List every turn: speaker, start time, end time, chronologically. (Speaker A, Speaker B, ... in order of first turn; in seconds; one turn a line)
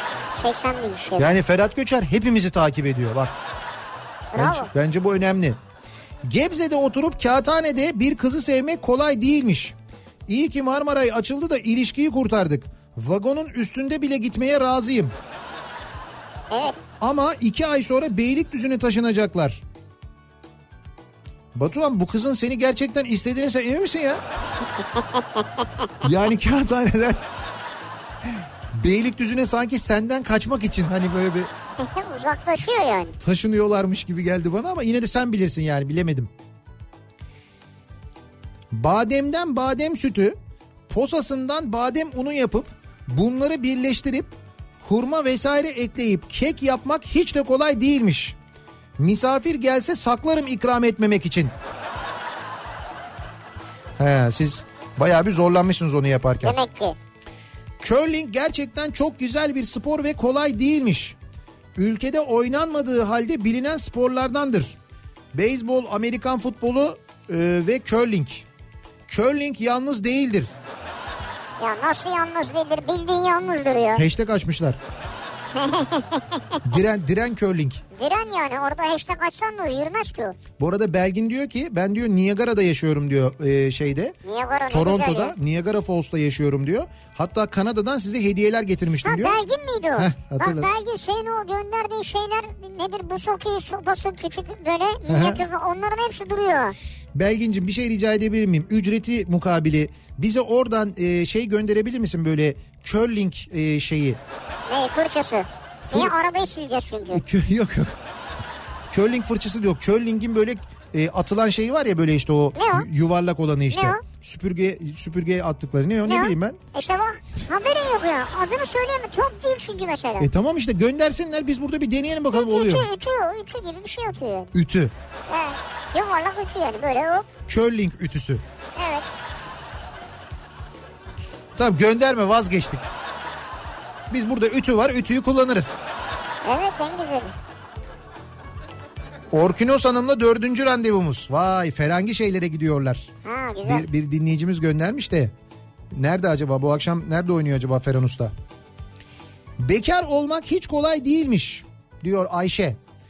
Speaker A: 0.3-1.3
Speaker B: 1.2-3.3
Speaker A: 4.3-4.7
Speaker B: 4.3-5.6
Speaker B: 6.2-9.8
Speaker B: 10.3-15.1
Speaker A: 16.5-16.8
Speaker B: 17.0-19.6
Speaker B: 21.5-24.2
Speaker A: 24.9-25.9
Speaker B: 26.0-27.2
Speaker B: 28.7-31.5
Speaker A: 31.8-33.2
Speaker B: 33.2-36.3
Speaker B: 38.7-40.4
Speaker B: 40.9-48.4
Speaker B: 49.0-51.5
Speaker B: 54.0-56.6
Speaker A: 56.4-57.0
Speaker B: 57.8-61.2
Speaker B: 61.8-64.8
Speaker B: 65.3-68.5
Speaker B: 69.1-70.5
Speaker A: 71.6-74.0
Speaker B: 74.0-74.8
Speaker A: 75.5-76.6
Speaker B: 76.6-77.8
Speaker A: 77.9-80.4
Speaker B: 80.6-84.2
Speaker A: 84.2-85.3
Speaker B: 84.7-89.4
Speaker A: 89.0-96.8
Speaker B: 90.0-90.7
Speaker B: 95.1-95.4
Speaker B: 97.1-104.2
Speaker A: 104.7-107.2
Speaker B: 105.9-106.1
Speaker B: 107.1-108.0
Speaker B: 108.9-116.6
Speaker A: 112.5-112.9
Speaker A: 113.7-114.0
Speaker A: 116.0-120.3
Speaker B: 120.2-122.9
Speaker A: 122.3-124.5
Speaker B: 124.5-124.9
Speaker A: 125.3-127.3
Speaker B: 127.5-128.4
Speaker A: 128.8-129.1
Speaker B: 131.6-132.8
Speaker B: 134.1-135.8
Speaker A: 136.4-137.3
Speaker B: 139.3-143.1
Speaker A: 143.2-143.8
Speaker B: 143.6-145.3
Speaker B: 145.9-148.3
Speaker B: 149.6-152.8